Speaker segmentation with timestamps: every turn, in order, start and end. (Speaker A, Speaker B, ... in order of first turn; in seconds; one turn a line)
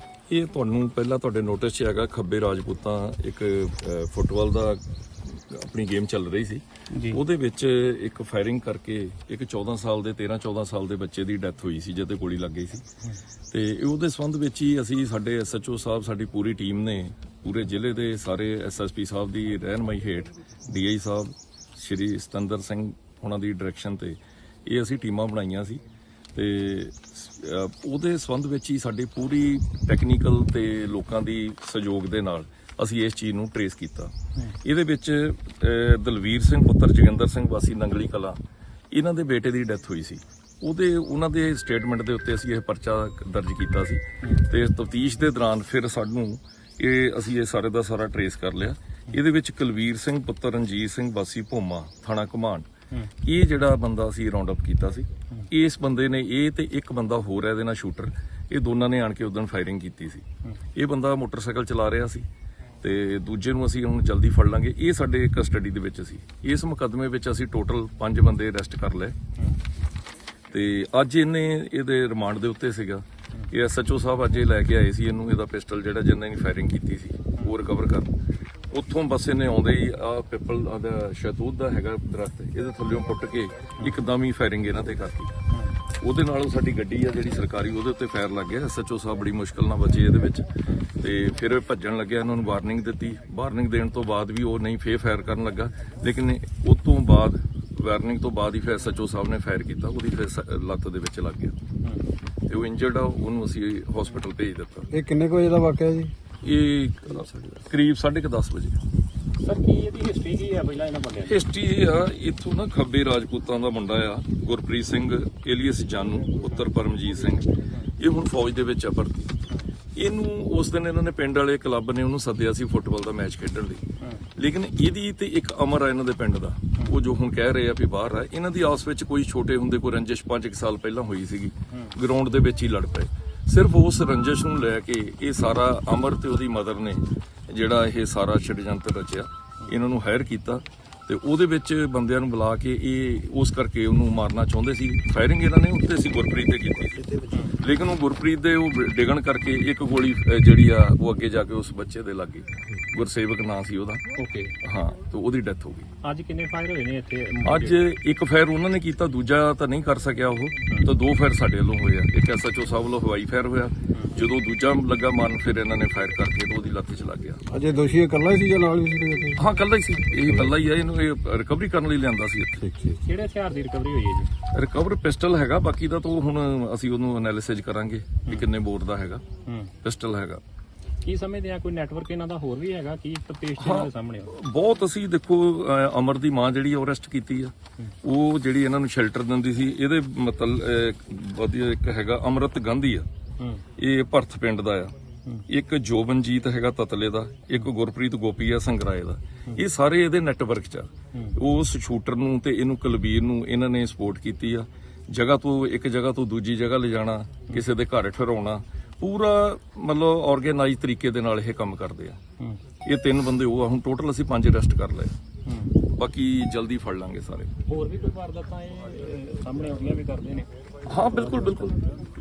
Speaker A: 0.3-12.8
Speaker B: 6.9-7.2
Speaker A: 13.5-25.8
Speaker A: 26.3-38.4
Speaker A: 38.9-52.7
Speaker A: 53.2-60.2
Speaker A: 60.8-62.3
Speaker A: 62.8-69.2
Speaker A: 70.5-78.1
Speaker A: 78.7-85.3
Speaker A: 85.9-101.6
Speaker A: 102.5-104.9
Speaker C: 104.9-106.1
Speaker A: 106.4-108.8
Speaker B: 109.4-111.4
Speaker A: 111.2-119.3
Speaker A: 120.0-123.8
Speaker B: 124.0-124.2
Speaker A: 124.3-154.0
Speaker B: 147.3-147.6
Speaker B: 154.1-154.5
Speaker A: 154.6-155.9
Speaker B: 156.0-157.8
Speaker A: 157.4-167.4
Speaker C: 167.5-169.4
Speaker A: 169.3-172.7
Speaker C: 172.6-172.9
Speaker B: 173.0-174.3
Speaker A: 174.5-179.2
Speaker B: 179.4-179.7
Speaker A: 179.8-180.4
Speaker B: 181.0-184.3
Speaker A: 183.6-193.1
Speaker A: 193.8-194.9
Speaker A: 195.5-212.2
Speaker A: 212.8-215.2
Speaker B: 215.4-215.7
Speaker A: 215.9-217.5
Speaker B: 217.7-220.5
Speaker A: 220.9-221.8